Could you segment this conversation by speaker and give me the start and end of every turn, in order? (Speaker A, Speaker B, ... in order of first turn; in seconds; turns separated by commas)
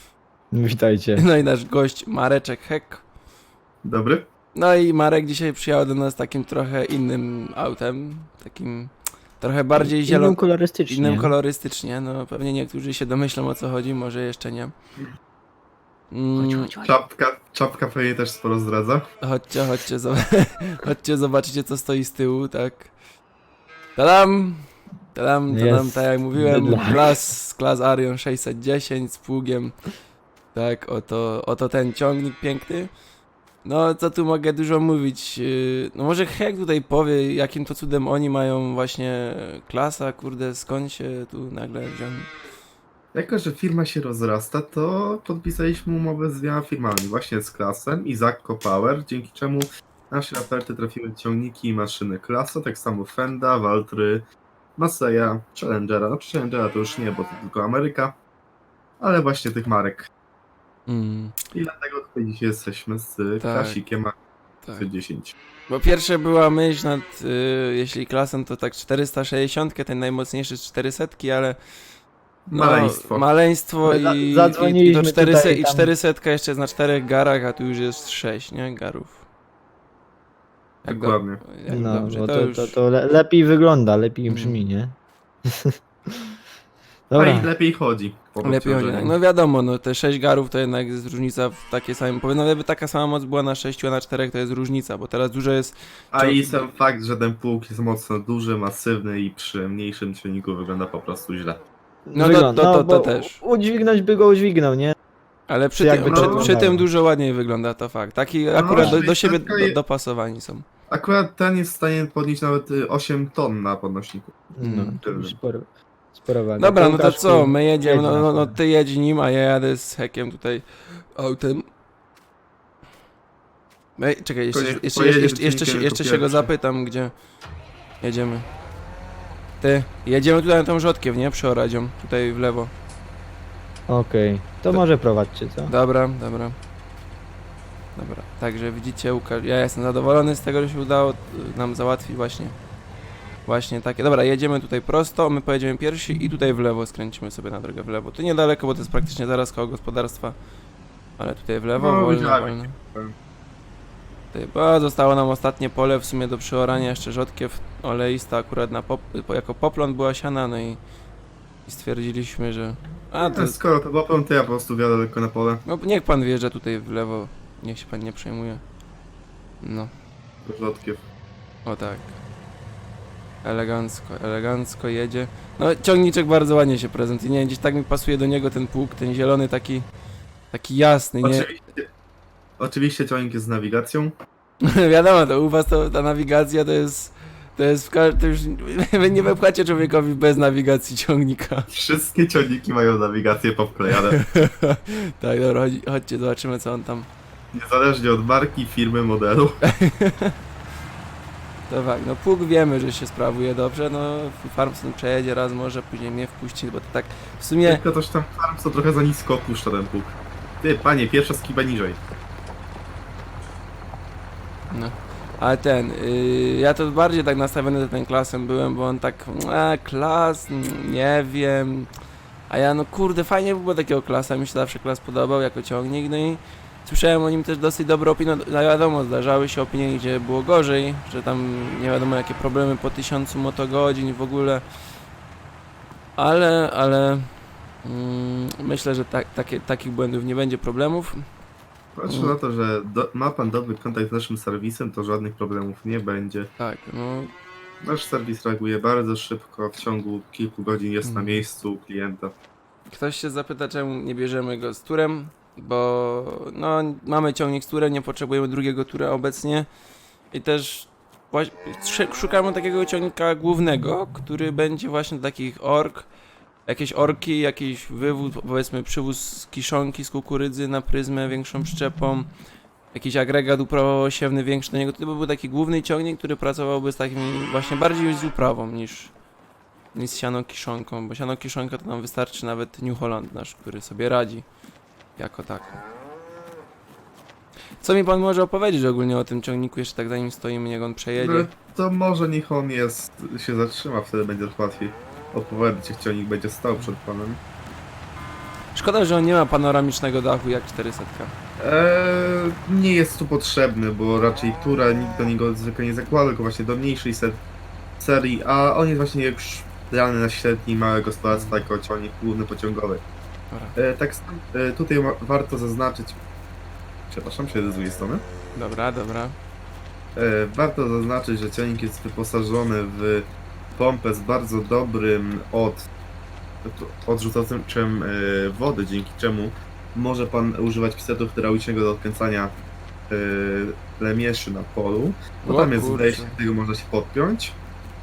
Speaker A: 0.5-1.2, Speaker B: 1.2-3.0, Speaker C: 3.8-4.2, Speaker B: 4.5-14.7, Speaker A: 9.8-11.3, Speaker B: 16.1-16.8, Speaker A: 16.4-16.7, Speaker C: 16.8-19.0, Speaker B: 19.2-22.9, Speaker B: 23.9-29.7, Speaker A: 25.5-27.1, Speaker B: 30.5-32.9, Speaker B: 33.6-42.3, Speaker C: 43.1-54.2, Speaker C: 54.8-58.1, Speaker C: 59.0-60.1, Speaker B: 60.9-61.3, Speaker C: 61.5-64.1, Speaker B: 63.4-63.8, Speaker C: 64.8-65.3, Speaker B: 65.7-71.6, Speaker C: 72.5-73.2, Speaker B: 72.5-79.2, Speaker A: 73.8-75.9, Speaker B: 80.8-82.8, Speaker C: 80.9-81.4, Speaker A: 81.7-84.9, Speaker B: 84.3-84.6, Speaker A: 85.5-86.2, Speaker A: 87.1-87.5, Speaker C: 87.2-89.2, Speaker B: 88.4-96.6, Speaker C: 96.1-101.6, Speaker A: 102.0-104.9, Speaker B: 102.1-103.4, Speaker B: 105.5-110.6, Speaker A: 105.8-106.8, Speaker C: 106.0-106.5, Speaker C: 108.5-109.8, Speaker C: 110.9-114.3, Speaker A: 114.5-118.5, Speaker B: 114.6-115.0, Speaker C: 115.0-115.3, Speaker B: 116.6-121.7, Speaker B: 124.0-127.1, Speaker C: 124.5-126.5, Speaker B: 128.0-128.4, Speaker B: 129.6-132.7, Speaker A: 133.9-135.7, Speaker B: 135.7-136.6, Speaker B: 137.9-142.6, Speaker B: 143.4-150.4, Speaker B: 151.2-152.7, Speaker C: 151.7-153.1, Speaker B: 154.3-160.8, Speaker B: 161.7-163.6, Speaker C: 163.2-165.6, Speaker B: 165.6-168.6, Speaker B: 169.6-169.9, Speaker C: 170.4-171.1, Speaker B: 171.7-172.2, Speaker B: 173.4-179.9, Speaker B: 180.5-181.5, Speaker C: 181.2-181.9, Speaker C: 182.6-184.1, Speaker B: 184.6-191.7, Speaker C: 191.7-194.2, Speaker B: 194.0-197.1, Speaker C: 197.5-199.6, Speaker B: 199.6-200.3, Speaker B: 201.7-207.8, Speaker C: 207.6-212.0, Speaker B: 214.7-221.9, Speaker B: 222.5-234.6, Speaker B: 236.2-237.3, Speaker B: 237.8-241.2, Speaker C: 241.9-246.5, Speaker B: 242.1-242.3, Speaker B: 246.6-247.3, Speaker C: 247.8-252.3, Speaker B: 251.0-251.4, Speaker B: 252.9-259.7, Speaker B: 260.3-266.1, Speaker B: 266.6-272.3, Speaker B: 272.9-279.1, Speaker B: 279.9-284.5, Speaker B: 285.2-285.8, Speaker B: 287.8-291.5, Speaker C: 291.2-297.4, Speaker B: 298.7-301.3, Speaker C: 301.6-307.4, Speaker C: 308.0-313.0, Speaker B: 311.3-311.6, Speaker C: 313.8-316.2, Speaker C: 317.1-318.2, Speaker B: 318.5-319.4, Speaker C: 320.1-325.9, Speaker C: 326.6-332.5, Speaker C: 333.1-337.6, Speaker B: 335.4-336.4